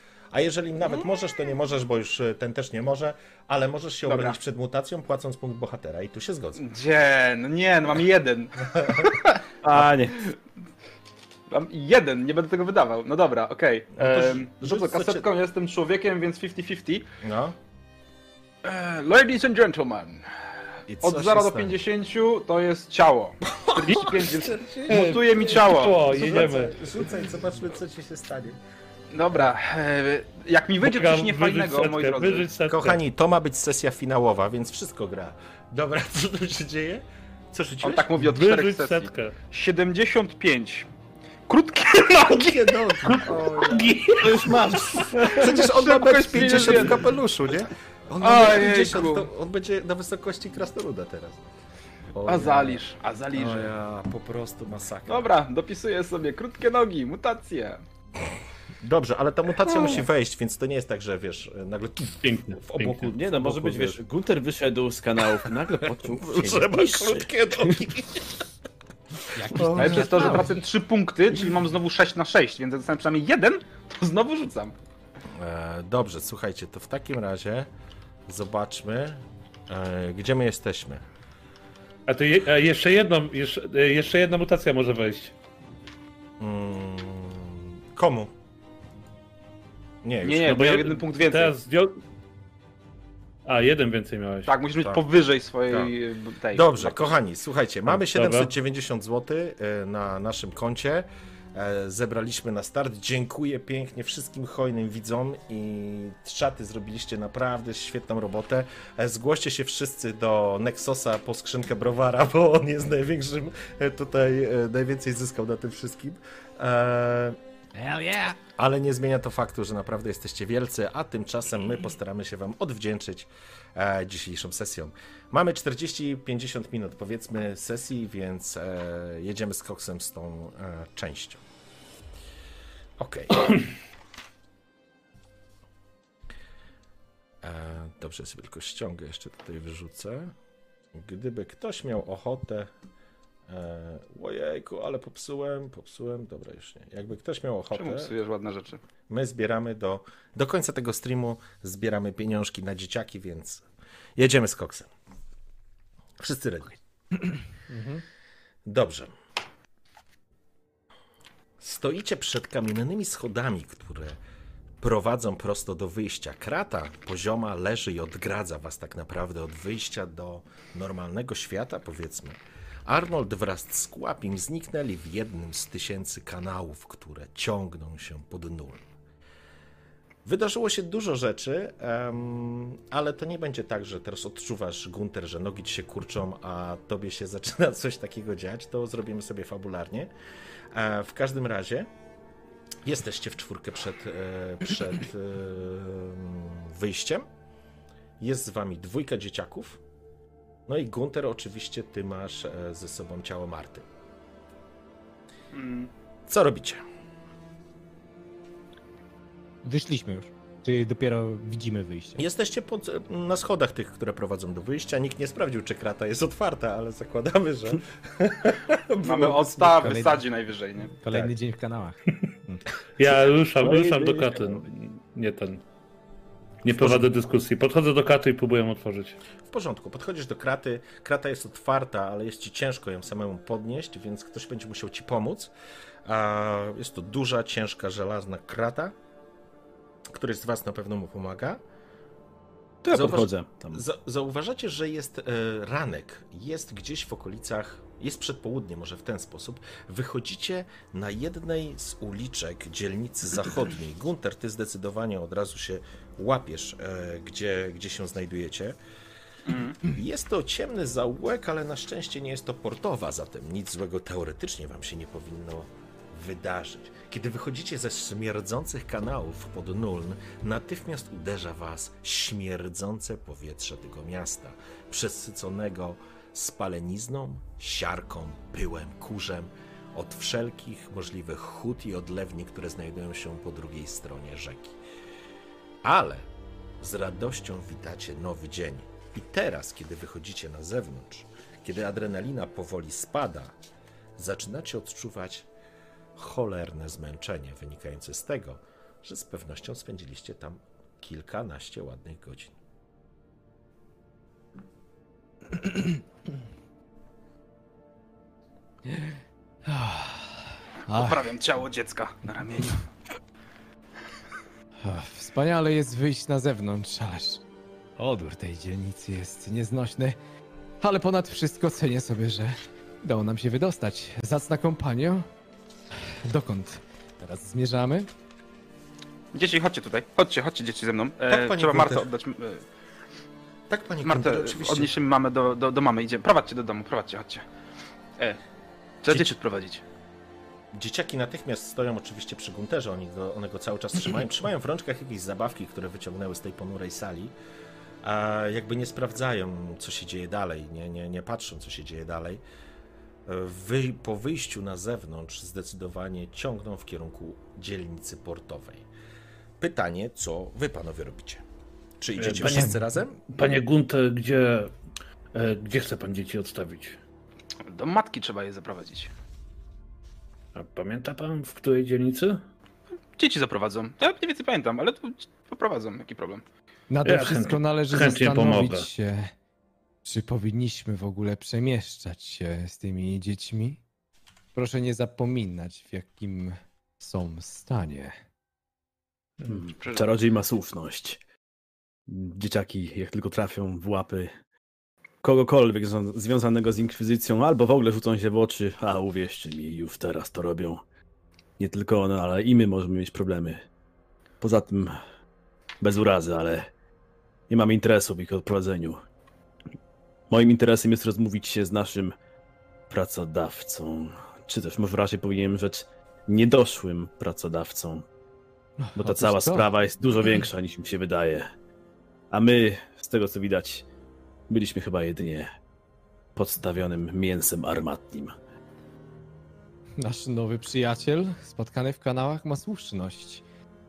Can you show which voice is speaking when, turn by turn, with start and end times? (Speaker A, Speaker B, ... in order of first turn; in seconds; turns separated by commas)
Speaker A: 0.3-6.6, Speaker B: 4.1-4.4, Speaker B: 6.6-9.3, Speaker A: 8.7-9.1, Speaker C: 9.6-10.2, Speaker B: 11.5-17.1, Speaker A: 13.9-15.3, Speaker A: 17.2-17.6, Speaker B: 18.6-20.2, Speaker A: 20.9-21.8, Speaker B: 21.0-26.4, Speaker A: 23.5-28.6, Speaker D: 23.9-24.1, Speaker D: 24.9-26.8, Speaker B: 29.1-32.5, Speaker D: 30.8-33.0, Speaker A: 32.7-38.1, Speaker B: 37.8-40.9, Speaker D: 38.2-39.4, Speaker B: 41.5-42.9, Speaker A: 42.4-44.1, Speaker D: 43.1-44.6, Speaker C: 44.2-45.5, Speaker B: 45.1-47.1, Speaker A: 45.3-51.5, Speaker B: 48.2-49.3, Speaker A: 52.1-52.8, Speaker B: 52.3-53.7, Speaker A: 53.3-55.3, Speaker B: 55.1-57.8, Speaker A: 58.8-64.0, Speaker D: 62.2-63.1, Speaker C: 63.1-67.8, Speaker A: 65.8-68.3, Speaker E: 69.3-70.5, Speaker A: 69.5-70.5, Speaker B: 69.8-74.8, Speaker A: 75.3-77.7, Speaker A: 78.3-81.0, Speaker D: 82.1-85.3, Speaker A: 86.4-88.3, Speaker A: 90.0-90.6, Speaker B: 90.2-91.5, Speaker D: 90.4-92.0, Speaker D: 93.5-94.5, Speaker B: 94.5-97.2, Speaker A: 95.7-95.9, Speaker A: 96.5-117.4, Speaker D: 97.9-98.5, Speaker E: 117.8-118.4, Speaker A: 118.6-131.4, Speaker A: 133.0-133.5, Speaker A: 137.4-140.3, Speaker A: 140.9-142.7, Speaker A: 143.5-148.1, Speaker B: 147.8-148.8, Speaker A: 149.1-153.6, Speaker A: 154.2-154.9, Speaker A: 156.2-156.8, Speaker E: 157.7-158.0, Speaker A: 158.7-159.1, Speaker A: 161.6-164.2, Speaker A: 164.8-178.9, Speaker A: 180.2-190.1, Speaker A: 190.7-191.9, Speaker A: 192.8-197.3, Speaker A: 198.2-199.8, Speaker A: 200.7-203.9, Speaker B: 205.5-205.9, Speaker A: 206.3-206.8, Speaker E: 209.6-212.2, Speaker A: 212.2-220.0, Speaker B: 219.0-220.9, Speaker E: 219.8-220.2, Speaker E: 220.9-222.6, Speaker D: 223.0-225.6, Speaker C: 223.6-224.6, Speaker D: 226.6-229.2, Speaker A: 226.8-227.1, Speaker A: 229.5-235.5, Speaker A: 236.1-238.9, Speaker A: 240.1-241.6, Speaker C: 242.8-243.8, Speaker A: 242.9-258.8, Speaker B: 259.5-259.8, Speaker A: 259.8-284.8, Speaker A: 285.8-286.3, Speaker A: 286.8-293.6, Speaker A: 294.2-295.5, Speaker A: 296.2-302.5, Speaker E: 305.5-306.0, Speaker E: 308.9-309.1, Speaker E: 309.7-311.2, Speaker B: 310.9-312.8, Speaker E: 314.8-317.4, Speaker E: 318.0-320.2, Speaker E: 320.8-325.3, Speaker E: 326.2-328.1, Speaker B: 329.3-332.6, Speaker A: 331.3-332.1, Speaker A: 333.7-334.9, Speaker B: 334.1-337.4, Speaker B: 339.0-339.8, Speaker A: 340.7-347.3, Speaker A: 348.0-352.4, Speaker A: 353.3-358.9, Speaker A: 359.6-361.4, Speaker A: 362.0-363.2, Speaker D: 362.2-364.8, Speaker D: 365.3-367.0, Speaker B: 367.6-369.1, Speaker D: 370.6-372.4, Speaker B: 373.2-376.4, Speaker E: 376.9-379.3, Speaker D: 377.1-378.9, Speaker E: 380.1-383.8, Speaker E: 384.6-388.1, Speaker C: 389.5-391.2, Speaker B: 389.8-390.1, Speaker C: 392.1-394.3, Speaker C: 395.2-400.8, Speaker C: 401.6-403.7, Speaker C: 404.4-405.0, Speaker C: 405.8-406.7, Speaker C: 407.5-409.0, Speaker C: 410.3-412.2, Speaker C: 412.9-418.1, Speaker E: 418.8-419.7, Speaker C: 419.0-421.5, Speaker C: 422.3-423.9, Speaker C: 424.5-425.5, Speaker C: 426.4-428.4, Speaker E: 430.0-433.4